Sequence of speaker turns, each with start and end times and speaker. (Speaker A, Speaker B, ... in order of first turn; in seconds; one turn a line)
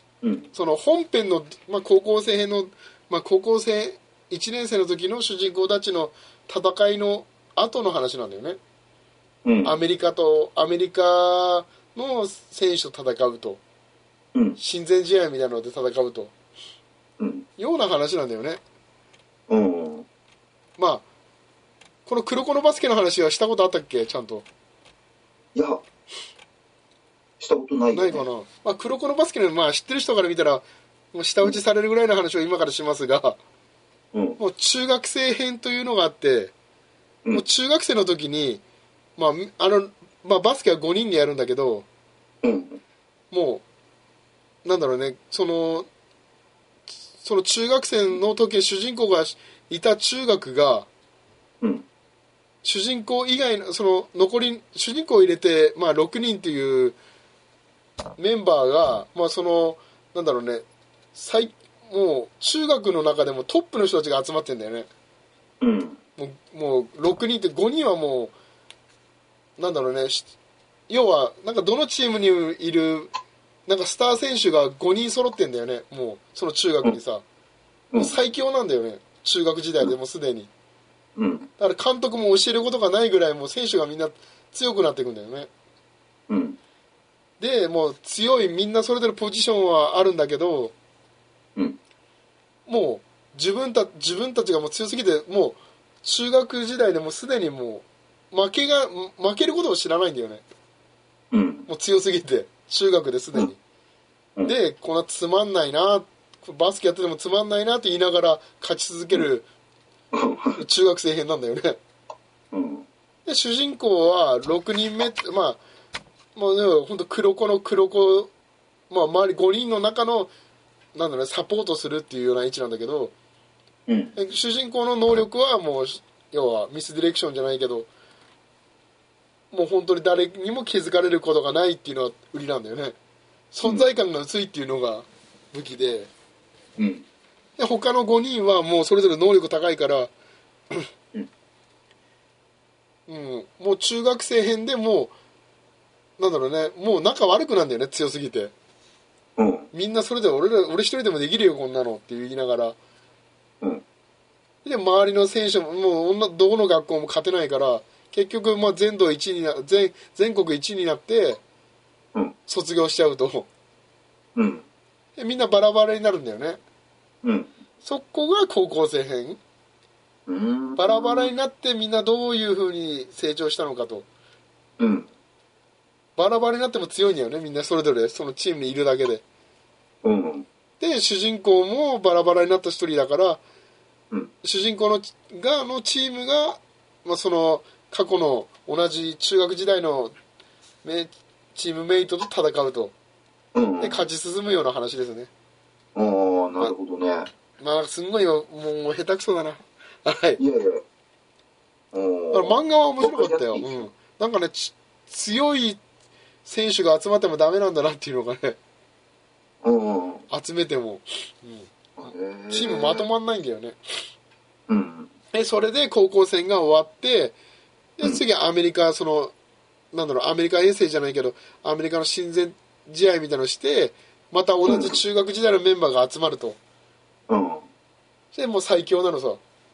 Speaker A: 0.2-0.5
Speaker B: 0.5-8.6
Speaker A: 9.4-9.8
Speaker B: 9.6-13.6
Speaker A: 14.3-14.6
Speaker B: 14.6-16.3
Speaker A: 17.2-17.5
Speaker B: 17.6-18.6
Speaker A: 19.5-20.1
Speaker B: 20.8-21.1
Speaker B: 22.1-24.4
Speaker A: 25.6-25.8
Speaker A: 27.4-28.2
Speaker B: 27.9-33.4
Speaker A: 34.1-34.4
Speaker B: 34.4-36.5
Speaker B: 37.3-38.6
Speaker B: 39.2-41.9
Speaker A: 42.4-42.8
Speaker B: 43.3-43.6
Speaker B: 44.6-45.9
Speaker B: 47.2-50.9
Speaker A: 51.6-51.9
Speaker B: 52.6-57.0
Speaker B: 58.2-64.9
Speaker A: 65.6-66.0
Speaker B: 66.2-68.3
Speaker B: 69.6-70.3
Speaker B: 70.9-73.1
Speaker B: 73.7-77.2
Speaker B: 78.0-80.5
Speaker A: 81.2-81.5
Speaker B: 81.6-85.5
Speaker A: 86.3-86.6
Speaker B: 87.4-90.7
Speaker B: 92.7-100.4
Speaker A: 101.3-101.7
Speaker B: 101.7-103.6
Speaker B: 104.5-109.5
Speaker A: 110.1-110.6
Speaker B: 110.5-111.8
Speaker A: 112.5-112.9
Speaker B: 113.3-115.6
Speaker B: 116.4-118.3
Speaker B: 118.9-120.3
Speaker B: 121.0-123.1
Speaker A: 123.9-124.2
Speaker B: 124.2-127.9
Speaker B: 129.5-133.0
Speaker B: 133.5-136.1
Speaker A: 136.8-137.1
Speaker B: 137.6-140.1
Speaker B: 143.1-145.1
Speaker B: 146.2-148.5
Speaker A: 149.4-149.7
Speaker B: 149.7-152.8
Speaker B: 154.6-161.4
Speaker B: 162.5-163.5
Speaker A: 164.4-164.7
Speaker B: 165.2-166.6
Speaker A: 167.2-167.5
Speaker B: 167.8-169.4
Speaker A: 170.3-171.3
Speaker B: 170.8-174.1
Speaker A: 174.8-175.1
Speaker B: 176.2-179.2
Speaker A: 180.0-180.5
Speaker B: 180.8-183.4
Speaker B: 184.4-190.1
Speaker B: 190.8-192.9
Speaker A: 193.5-194.1
Speaker B: 193.8-195.3
Speaker A: 195.9-197.3
Speaker B: 197.6-200.4
Speaker A: 200.4-200.8
Speaker A: 201.9-203.9
Speaker B: 202.3-205.8
Speaker B: 206.4-208.6
Speaker A: 209.6-210.3
Speaker B: 210.3-211.7
Speaker A: 212.0-213.1
Speaker B: 212.5-213.8
Speaker A: 214.7-215.1
Speaker B: 215.3-217.4
Speaker B: 218.0-219.3
Speaker B: 219.9-226.6
Speaker A: 224.7-225.0
Speaker A: 227.3-227.7
Speaker B: 228.3-229.4